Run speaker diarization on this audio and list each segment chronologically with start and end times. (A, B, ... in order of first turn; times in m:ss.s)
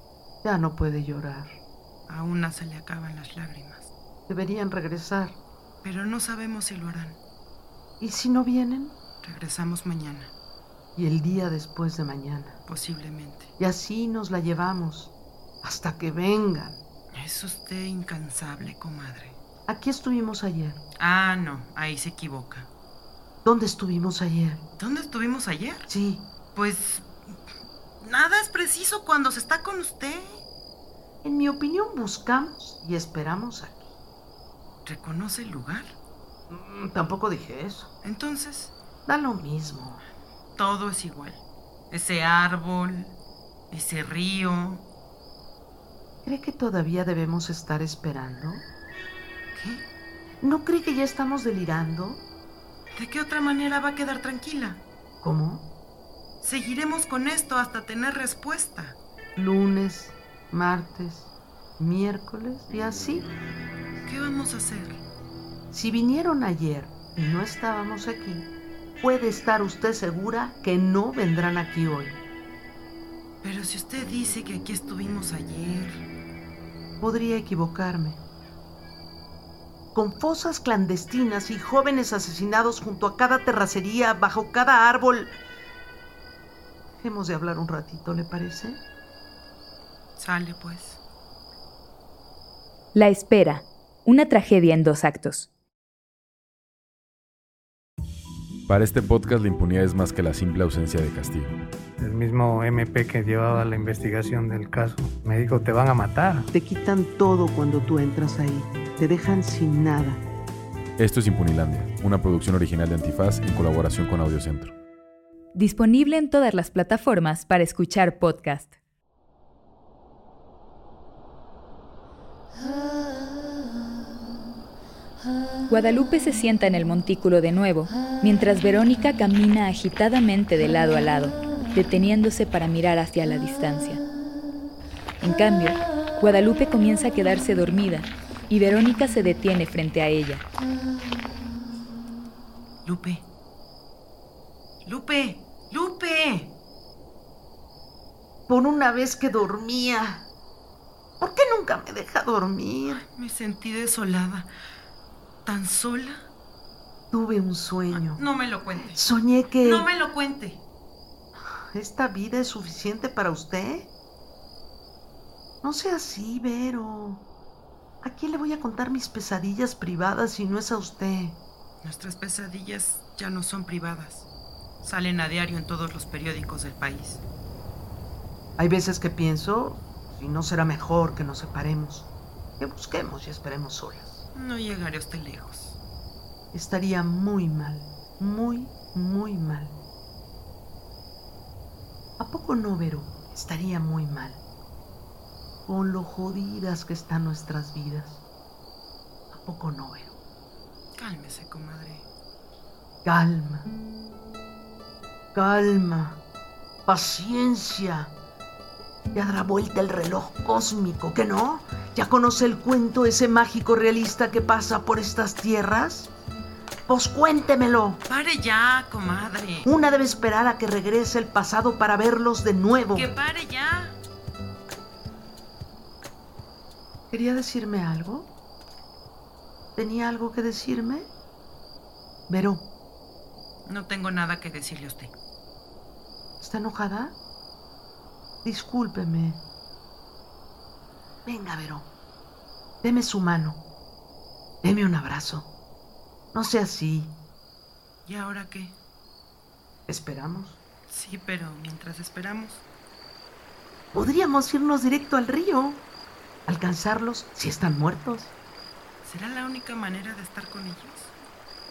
0:00.4-0:01.6 A
0:02.1-0:03.9 B
0:04.3-0:05.4 A
0:05.8-0:07.2 B
0:08.0-0:09.0 A
0:09.2-0:10.3 B
0:11.0-0:12.6 A
0:12.6-0:13.5 B
0:13.6-0:16.8 A
0:17.1-0:19.4 B
0:19.7-0:20.8 A
0:21.0-0:22.7 B
0:23.4-0:24.6 A
0:24.8-0:25.9 B
0:25.9-0:26.3 A
0:26.5-0:27.4 B
0:28.0-0:30.4 B
0:31.2-0:33.9 A
0:34.8-0:35.9 B
0:36.5-0:37.9 A
0:38.0-0:38.7 B
0:39.0-0:40.0 A
0:40.6-0:43.2 B
0:43.7-0:44.8 B
0:46.2-0:48.7 A
0:49.5-0:49.9 B
0:50.4-0:52.2 A
0:52.9-0:54.8 B
0:55.2-0:55.7 A
0:56.4-0:59.0 B
0:59.4-1:03.3 A
1:04.0-1:05.0 B
1:05.7-1:12.2 A
1:13.4-1:16.0 B
1:17.0-1:18.2 A
1:19.9-1:25.4 A
1:26.9-1:28.8 A
1:30.2-1:31.0 B
1:32.9-1:35.5 C
1:38.7-1:41.6 D
1:42.0-1:46.5 E
1:46.5-1:50.2 A
1:51.0-1:54.8 D
1:55.5-1:58.7 C
2:05.7-2:14.0 C
2:15.2-2:20.4 C
2:22.8-2:23.2 B
2:24.8-2:26.5 B
2:28.5-2:30.3 A
2:31.2-2:33.0 A
2:32.9-2:34.5 B
2:35.4-2:36.3 B
2:37.1-2:38.2 A
2:37.9-2:39.0 B
2:38.8-2:39.9 A
2:39.6-2:40.6 B
2:41.7-2:43.9 A
2:45.6-2:47.2 A
2:48.0-2:51.4 A
2:51.8-2:54.3 B
2:54.8-2:57.2 B
2:58.6-3:04.2 A
3:04.3-3:05.8 B
3:06.5-3:09.8 A
3:12.2-3:14.4 A
3:15.6-3:18.2 A
3:19.3-3:20.2 A
3:21.0-3:22.0 B
3:23.0-3:23.7 A
3:25.3-3:26.2 A
3:26.8-3:28.1 A
3:29.1-3:36.1 A
3:36.9-3:38.0 A
3:38.0-3:39.7 B
3:39.6-3:43.1 A
3:42.9-3:44.0 B
3:47.1-3:48.3 A
3:49.8-3:51.1 A
3:52.3-3:52.7 A
3:53.6-3:55.1 B
3:56.4-3:57.2 A
3:58.4-3:59.4 A
4:01.2-4:01.9 A
4:02.8-4:03.6 A
4:04.6-4:05.5 A
4:06.3-4:07.2 A
4:08.0-4:08.8 B
4:09.9-4:10.6 A
4:10.9-4:12.6 B
4:13.9-4:15.8 A
4:16.4-4:18.3 A
4:19.0-4:21.1 B